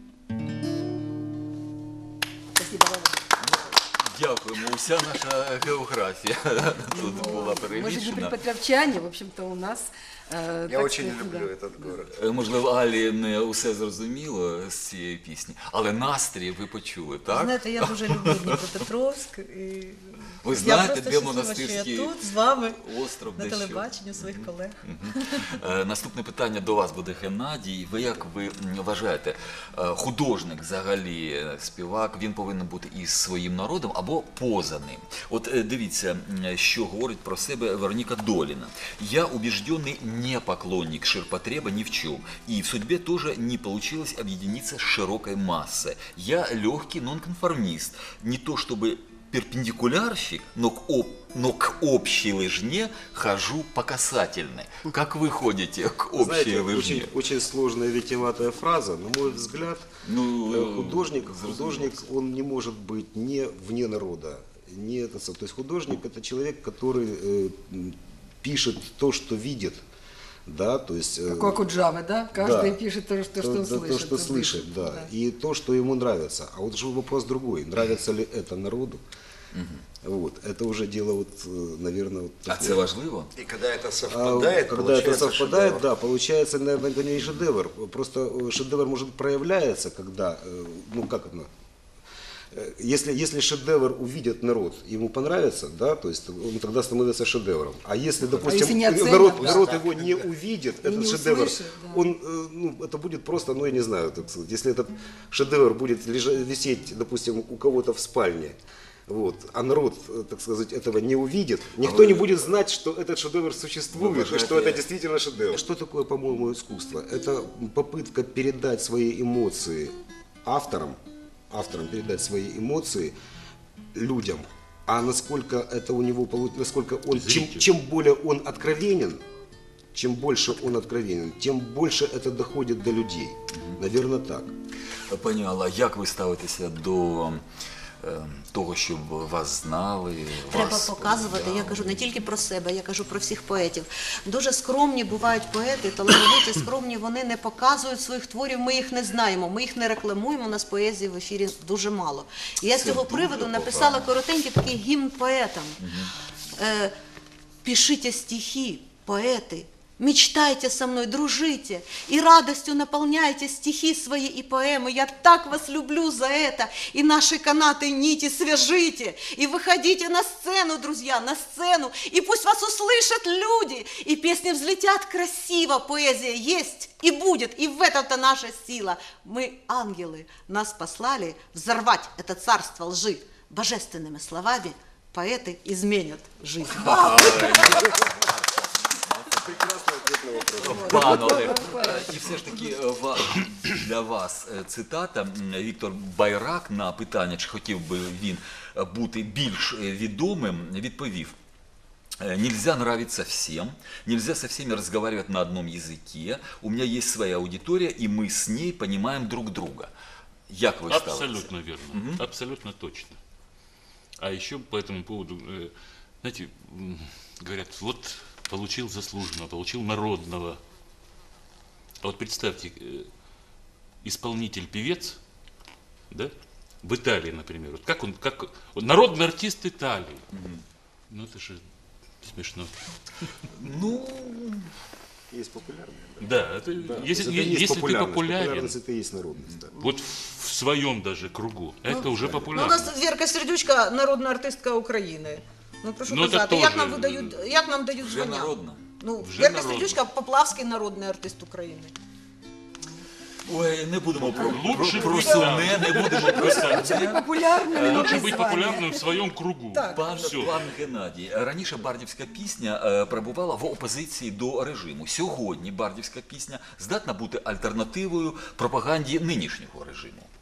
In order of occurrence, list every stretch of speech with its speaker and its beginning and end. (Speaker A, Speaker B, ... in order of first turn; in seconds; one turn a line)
Speaker A: 2.6-3.2
Speaker B: 3.4-8.3
Speaker A: 6.9-11.5
Speaker C: 10.7-12.1
Speaker B: 12.1-18.6
Speaker D: 17.3-22.8
Speaker B: 20.4-57.1
Speaker D: 23.4-25.5
Speaker E: 56.1-59.9
Speaker B: 60.0-62.1
Speaker E: 60.5-69.8
Speaker E: 70.5-71.6
Speaker A: 71.3-75.1
Speaker E: 72.3-72.8
Speaker E: 73.4-79.0
Speaker B: 79.5-79.8
Speaker E: 80.0-82.8
Speaker B: 82.5-83.3
Speaker C: 83.3-85.9
Speaker E: 84.1-91.5
Speaker E: 92.5-123.2
Speaker B: 98.3-98.5
Speaker A: 98.5-99.7
Speaker A: 100.8-102.2
Speaker B: 111.8-112.4
Speaker B: 113.9-114.8
Speaker E: 123.9-129.2
Speaker F: 127.1-127.7
Speaker E: 129.9-134.5
Speaker B: 135.1-137.4
Speaker B: 138.0-142.1
Speaker D: 140.4-155.9
Speaker B: 152.7-154.1
Speaker B: 155.8-156.1
Speaker D: 156.6-156.9
Speaker D: 157.7-187.9
Speaker B: 186.7-189.5
Speaker E: 187.8-188.1
Speaker E: 189.4-191.8
Speaker B: 190.6-201.3
Speaker A: 190.6-192.1
Speaker B: 202.2-209.9
Speaker B: 210.5-212.2
Speaker F: 210.9-213.2
Speaker F: 214.2-220.6
Speaker F: 222.0-223.1
Speaker F: 224.0-225.2
Speaker F: 226.1-230.2
Speaker B: 230.3-230.6
Speaker F: 231.1-231.6
Speaker F: 232.2-232.7
Speaker B: 233.6-234.7
Speaker E: 235.3-239.8
Speaker F: 236.2-238.8
Speaker F: 239.8-242.9
Speaker D: 241.9-251.9
Speaker E: 242.3-242.5
Speaker F: 246.1-247.5
Speaker B: 248.0-248.8
Speaker F: 249.2-250.0
Speaker B: 253.5-258.3
Speaker F: 254.2-260.6
Speaker A: 255.2-255.5
Speaker A: 256.3-259.1
Speaker B: 259.8-270.3